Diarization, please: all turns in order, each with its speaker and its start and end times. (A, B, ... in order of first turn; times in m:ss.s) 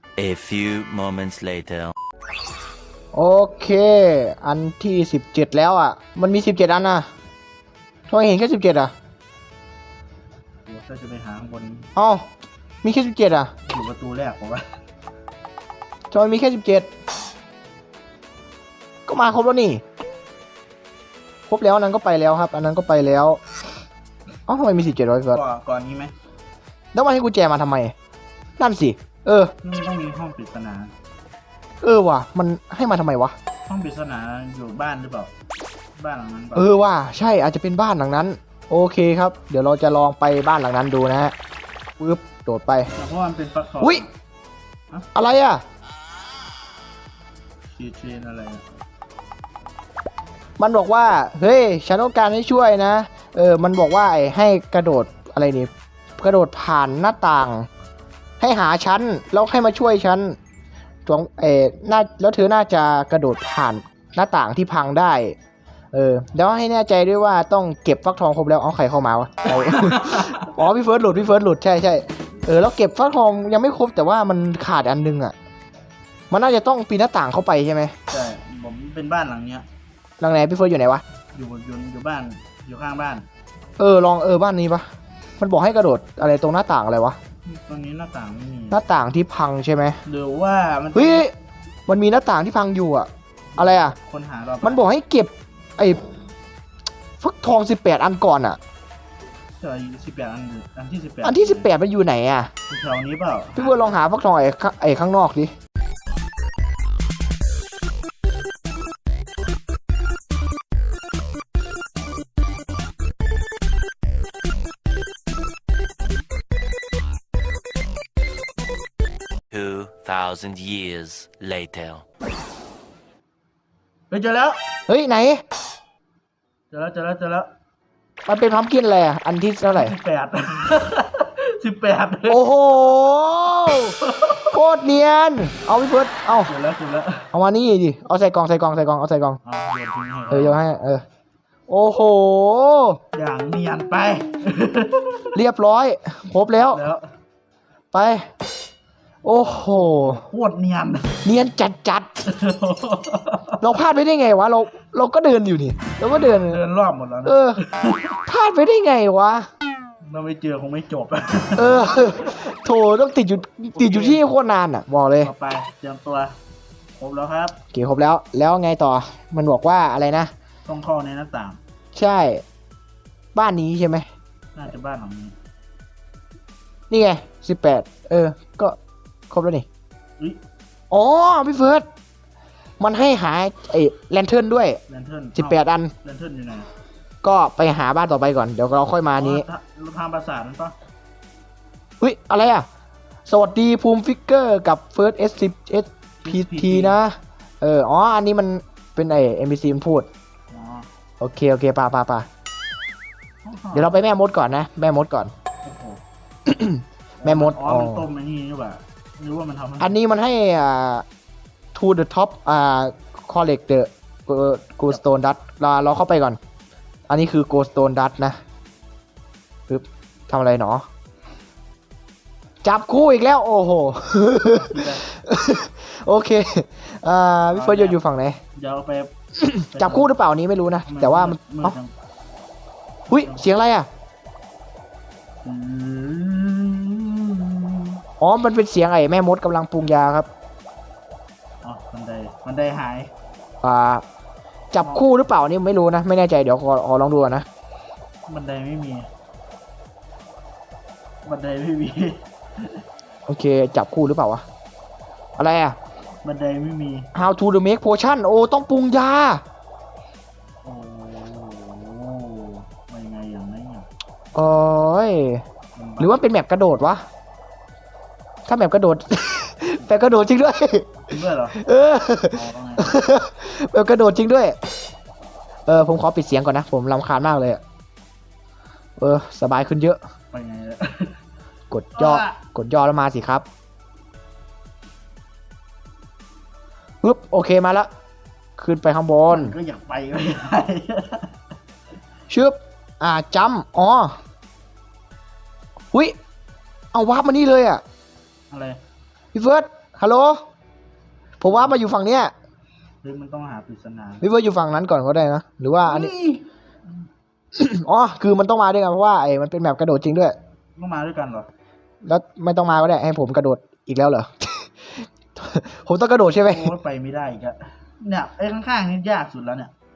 0:00.2-0:01.9 A
0:03.1-0:07.1 B
0:08.1-0:08.9 B
0:10.7-0:11.9 C
0:12.0-0:12.3 B
0:12.8-0:13.5 B
0:13.7-0:14.7 C
0:16.1-0:16.9 B
0:19.1-0:19.8 B
0:21.5-0:23.4 B
0:24.5-0:25.4 B
0:25.3-0:26.1 C
0:26.9-0:27.9 B
0:28.6-0:29.5 B
0:29.6-0:30.9 C
0:31.8-0:33.4 B
0:33.7-0:35.3 C
0:36.0-0:36.7 C
0:36.6-0:41.3 B
0:42.0-0:42.9 B
0:43.0-0:44.1 C
0:45.2-0:45.6 B
0:47.7-0:48.6 C
0:50.6-0:57.7 B
0:58.4-1:00.4 B
1:01.1-1:05.4 B
1:05.9-1:15.3 B
1:09.7-1:10.3 C
1:16.3-1:17.9 B
1:18.1-1:19.6 C
1:20.2-1:21.0 B
1:21.3-1:23.2 C
1:23.8-1:24.9 B
1:25.4-1:27.2 B
1:27.5-1:28.8 C
1:28.7-1:30.0 B
1:30.1-1:31.2 C
1:31.0-1:31.3 B
1:31.9-1:34.0 B
1:33.6-1:34.8 C
1:34.6-1:36.0 B
1:37.2-1:38.6 B
1:39.6-1:41.7 C
1:41.2-1:42.5 B
1:42.7-1:43.9 C
1:43.6-1:45.5 B
1:59.5-2:02.0 A
2:04.1-2:04.6 C
2:04.9-2:05.4 B
2:06.7-2:07.5 C
2:08.3-2:10.0 B
2:09.7-2:12.5 C
2:12.3-2:14.0 B
2:14.0-2:14.5 C
2:14.5-2:16.5 B
2:16.5-2:17.3 C
2:17.3-2:19.4 B
2:19.4-2:20.6 C
2:20.3-2:21.0 B
2:21.7-2:23.0 B
2:23.1-2:25.4 C
2:25.4-2:26.8 B
2:26.7-2:27.0 C
2:27.9-2:28.3 B
2:29.2-2:30.2 B
2:29.5-2:31.2 C
2:31.2-2:32.1 B
2:32.2-2:33.6 C
2:33.6-2:36.6 B
2:36.1-2:38.2 C
2:37.3-2:37.6 B
2:38.3-2:39.5 B
2:40.0-2:42.1 C
2:41.6-2:45.3 B
2:43.8-2:44.2 C
2:45.2-2:46.4 C
2:47.0-2:47.6 C
2:47.7-2:50.3 B
2:50.7-2:51.6 C
2:52.0-2:52.4 B
2:53.4-2:54.1 B
2:54.6-2:55.4 C
2:56.9-2:58.8 B
2:59.3-2:59.7 B
3:00.9-3:01.8 B
3:02.8-3:04.8 B
3:04.9-3:06.7 C
3:05.4-3:05.9 B
3:07.2-3:09.5 B
3:09.2-3:10.8 C
3:12.0-3:12.7 B
3:13.3-3:20.1 B
3:16.2-3:17.0 C
3:20.5-3:20.9 C
3:21.2-3:22.3 B
3:23.4-3:23.9 C
3:23.7-3:25.3 B
3:25.6-3:26.0 C
3:26.5-3:28.0 B
3:27.2-3:30.0 C
3:29.8-3:31.0 B
3:31.7-3:36.4 B
3:37.1-3:38.4 B
3:39.7-3:40.8 B
3:42.6-3:48.4 B
3:44.5-3:45.0 C
3:47.5-3:48.0 C
3:48.6-3:49.1 C
3:49.4-3:51.8 B
3:49.7-3:50.1 C
3:50.9-3:51.9 C
3:53.1-3:53.4 C
3:53.1-3:53.9 B
3:55.4-3:58.0 C
3:58.2-4:00.3 B
4:01.6-4:03.1 C
4:03.6-4:04.0 B
4:04.7-4:07.4 B
4:08.3-4:09.1 C
4:11.2-4:12.8 C
4:13.3-4:14.4 B
4:15.4-4:15.8 B
4:16.2-4:17.1 C
4:17.1-4:19.4 B
4:20.6-4:23.9 C
4:24.4-4:25.4 B
4:25.8-4:26.2 C
4:26.0-4:27.0 B
4:28.5-4:34.6 B
4:31.0-4:31.6 C
4:32.3-4:33.0 C
4:35.7-4:37.6 B
4:39.0-4:40.0 B
4:40.3-4:41.2 C
4:41.7-4:43.4 B
4:42.0-4:42.4 C
4:47.0-4:47.9 B
4:48.6-4:49.6 B
4:49.3-4:51.3 C
4:52.3-4:54.2 B
4:56.9-4:57.8 B
4:58.5-4:58.8 C
4:59.3-5:00.4 B
5:01.4-5:02.3 B
5:03.0-5:04.2 C
5:04.2-5:06.1 B
5:05.8-5:06.4 C
5:07.6-5:10.4 B
5:10.8-5:11.5 C
5:12.0-5:16.7 B
5:16.5-5:19.7 C